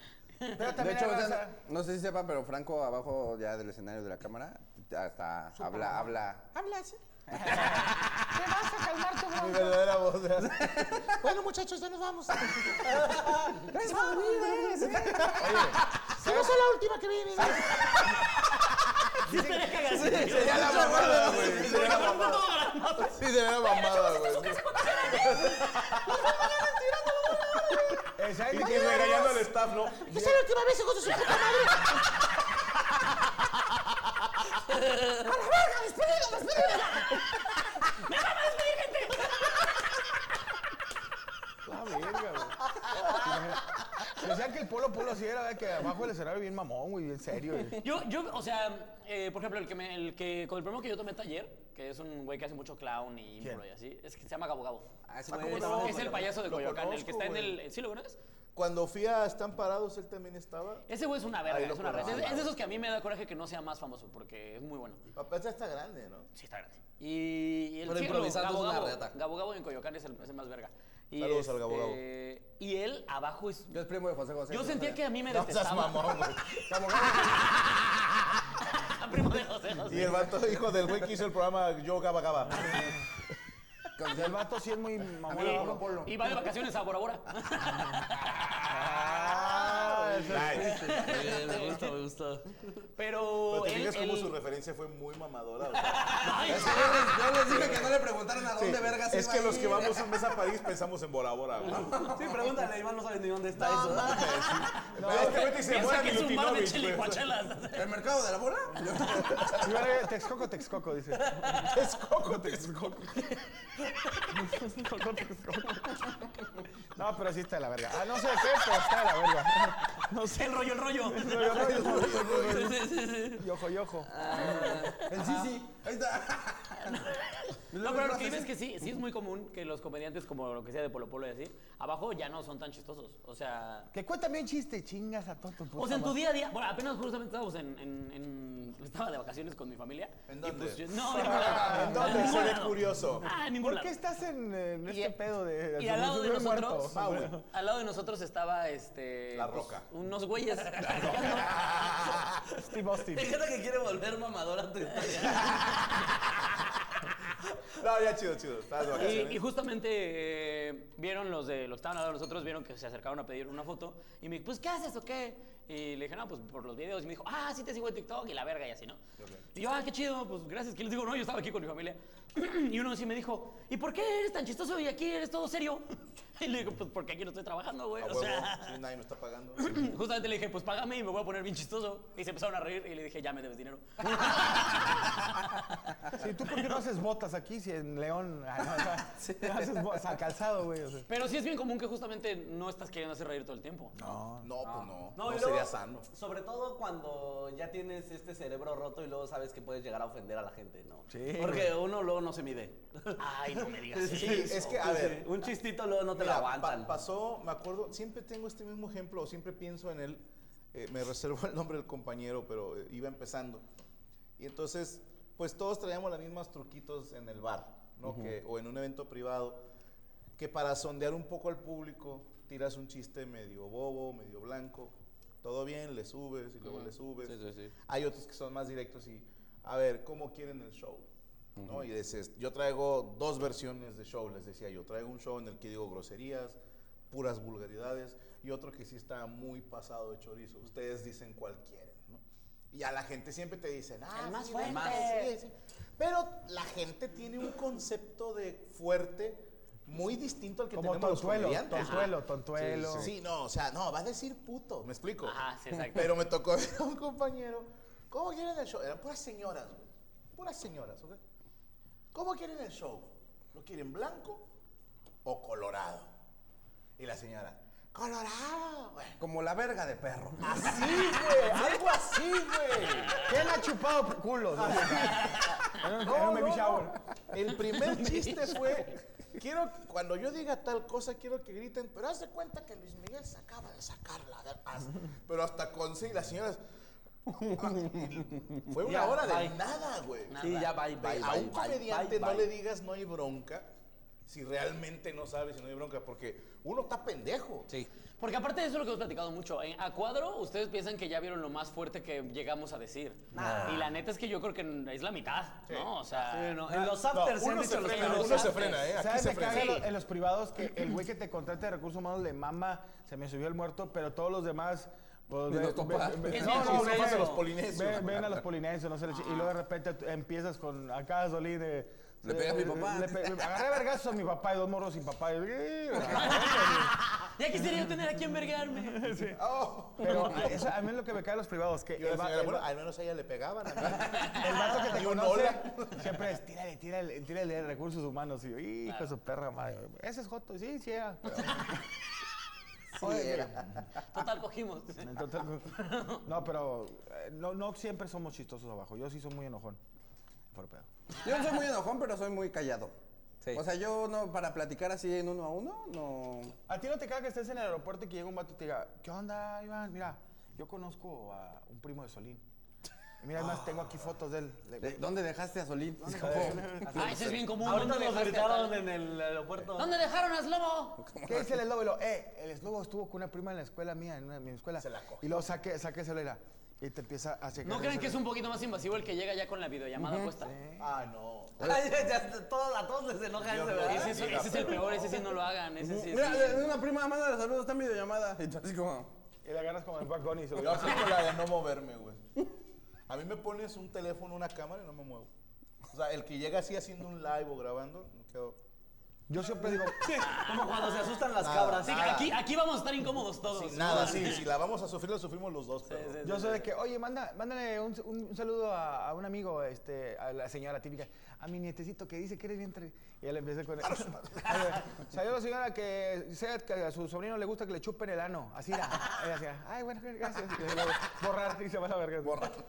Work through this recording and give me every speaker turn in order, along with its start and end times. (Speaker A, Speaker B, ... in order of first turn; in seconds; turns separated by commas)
Speaker A: 0.4-0.7, Speaker B: 0.5-1.6, Speaker C: 0.8-7.7, Speaker B: 7.3-9.9, Speaker D: 9.3-18.2, Speaker C: 10.5-11.1, Speaker C: 12.3-12.7, Speaker E: 12.9-13.5, Speaker C: 13.6-16.1, Speaker B: 15.3-16.7, Speaker B: 17.4-17.9, Speaker A: 19.2-26.7, Speaker B: 19.3-19.6, Speaker C: 19.9-22.0, Speaker E: 20.2-21.1, Speaker D: 20.3-22.5, Speaker D: 23.0-27.8, Speaker A: 27.3-27.7, Speaker B: 28.1-29.5, Speaker D: 28.5-32.2, Speaker B: 30.0-30.4, Speaker A: 36.5-40.2, Speaker B: 41.6-47.8, Speaker A: 47.8-54.9, Speaker C: 55.1-55.5, Speaker E: 55.2-56.3, Speaker D: 55.3-57.6, Speaker A: 55.4-58.2, Speaker D: 58.5-60.9, Speaker A: 60.9-65.0, Speaker D: 61.4-62.5, Speaker D: 65.1-66.3, Speaker A: 66.3-73.8, Speaker E: 67.8-69.1, Speaker D: 71.2-72.0, Speaker C: 73.7-75.0, Speaker A: 74.5-80.4, Speaker D: 75.3-76.6, Speaker B: 76.7-77.2, Speaker D: 79.9-83.0, Speaker C: 84.0-84.4, Speaker B: 84.1-86.1, Speaker C: 85.3-85.8, Speaker A: 85.3-88.9, Speaker B: 88.7-90.7, Speaker E: 89.7-92.7, Speaker D: 90.3-91.4, Speaker A: 90.6-92.0, Speaker A: 93.0-94.3, Speaker D: 93.5-96.5, Speaker E: 95.9-97.9, Speaker A: 96.2-97.2, Speaker C: 96.4-100.2, Speaker D: 98.4-102.0, Speaker C: 101.6-102.4, Speaker E: 101.9-104.5, Speaker D: 103.5-107.2, Speaker A: 104.6-108.0, Speaker B: 104.9-105.5, Speaker C: 107.7-109.9, Speaker B: 109.6-113.3, Speaker E: 111.2-111.7, Speaker D: 111.7-112.6, Speaker B: 114.3-116.2, Speaker B: 117.0-124.3, Speaker A: 120.2-121.8, Speaker D: 121.5-122.8, Speaker E: 121.7-123.4, Speaker E: 124.1-125.0, Speaker C: 124.3-127.0, Speaker A: 124.5-124.9, Speaker B: 125.0-125.6, Speaker A: 126.8-133.9, Speaker C: 127.7-128.5, Speaker B: 133.9-136.2, Speaker A: 135.8-144.0, Speaker D: 140.3-143.3, Speaker B: 141.1-142.5, Speaker B: 143.6-147.4, Speaker D: 144.9-145.1, Speaker A: 145.8-146.9, Speaker D: 146.9-147.4, Speaker A: 147.5-151.7, Speaker D: 149.3-149.9, Speaker D: 150.9-152.4, Speaker B: 152.7-153.3, Speaker E: 153.1-155.8, Speaker A: 155.3-155.9, Speaker D: 157.8-159.4, Speaker A: 158.9-169.0, Speaker A: 169.5-178.8, Speaker D: 178.0-179.8, Speaker A: 179.6-185.2, Speaker B: 186.1-191.1, Speaker C: 189.2-189.8, Speaker A: 191.1-193.9, Speaker B: 193.9-194.5, Speaker D: 194.4-196.1, Speaker E: 195.2-206.9, Speaker B: 201.1-201.7, Speaker A: 203.2-204.8, Speaker D: 204.1-205.5, Speaker D: 206.1-213.6, Speaker D: 214.4-219.6, Speaker C: 218.0-218.3, Speaker D: 220.4-227.3, Speaker C: 227.3-227.7, Speaker D: 227.9-231.1, Speaker C: 231.6-231.9, Speaker D: 231.6-236.6, Speaker D: 237.1-252.2, Speaker A: 244.1-245.3, Speaker E: 244.6-245.1, Speaker B: 250.7-253.1, Speaker A: 251.7-252.2, Speaker C: 252.6-253.1, Speaker D: 253.0-261.2, Speaker A: 255.2-256.2, Speaker D: 262.1-264.5, Speaker D: 265.2-266.1, Speaker D: 267.0-269.2, Speaker C: 269.2-270.8, Speaker D: 270.4-273.4, Speaker B: 273.2-277.0, Speaker D: 274.6-275.5, Speaker A: 275.2-275.6, Speaker D: 276.0-286.6, Speaker A: 277.7-278.9, Speaker D: 287.4-293.7, Speaker E: 288.8-289.6, Speaker A: 290.3-290.7, Speaker E: 290.4-292.5, Speaker D: 294.3-297.7, Speaker A: 298.2-306.8, Speaker E: 303.4-303.8, Speaker B: 303.4-303.6, Speaker D: 305.7-305.9, Speaker E: 306.2-308.7, Speaker D: 307.1-309.9, Speaker A: 307.8-308.9, Speaker B: 308.9-326.9, Speaker A: 309.4-309.8, Speaker C: 315.5-316.9, Speaker A: 316.3-316.8, Speaker D: 316.4-318.4, Speaker E: 316.6-317.4, Speaker A: 319.1-319.5, Speaker C: 322.2-323.6, Speaker C: 326.0-326.3, Speaker A: 326.0-329.2, Speaker B: 328.9-332.6, Speaker D: 329.4-330.1, Speaker D: 332.0-336.2, Speaker B: 334.4-341.7, Speaker A: 338.8-339.1, Speaker C: 341.3-341.6, Speaker A: 341.4-341.7, Speaker C: 343.0-343.6, Speaker B: 343.0-343.8, Speaker A: 344.1-346.2, Speaker B: 345.0-349.8, Speaker B: 350.5-350.9, Speaker C: 351.2-352.9, Speaker C: 353.5-356.6, Speaker B: 356.7-362.4, Speaker B: 363.2-365.0, Speaker C: 364.8-367.4, Speaker B: 366.0-367.1, Speaker E: 366.8-369.9, Speaker A: 366.9-368.8, Speaker A: 369.8-371.0, Speaker C: 371.0-371.5, Speaker B: 371.2-378.3, Speaker D: 374.8-375.5, Speaker A: 377.6-380.5, Speaker C: 380.0-380.3, Speaker B: 380.4-380.8, Speaker D: 380.8-381.8, Speaker E: 381.6-384.5, Speaker D: 383.4-385.1, Speaker A: 383.8-386.8, Speaker C: 385.8-389.1, Speaker B: 389.4-391.1, Speaker D: 390.6-392.2, Speaker D: 393.1-395.3, Speaker D: 395.9-398.6, Speaker B: 399.3-400.1, Speaker E: 399.6-402.1, Speaker A: 400.1-401.3, Speaker D: 401.4-402.4, Speaker A: 401.8-404.5, Speaker D: 403.5-406.2, Speaker A: 405.9-406.7, Speaker B: 406.2-422.6, Speaker D: 413.8-414.6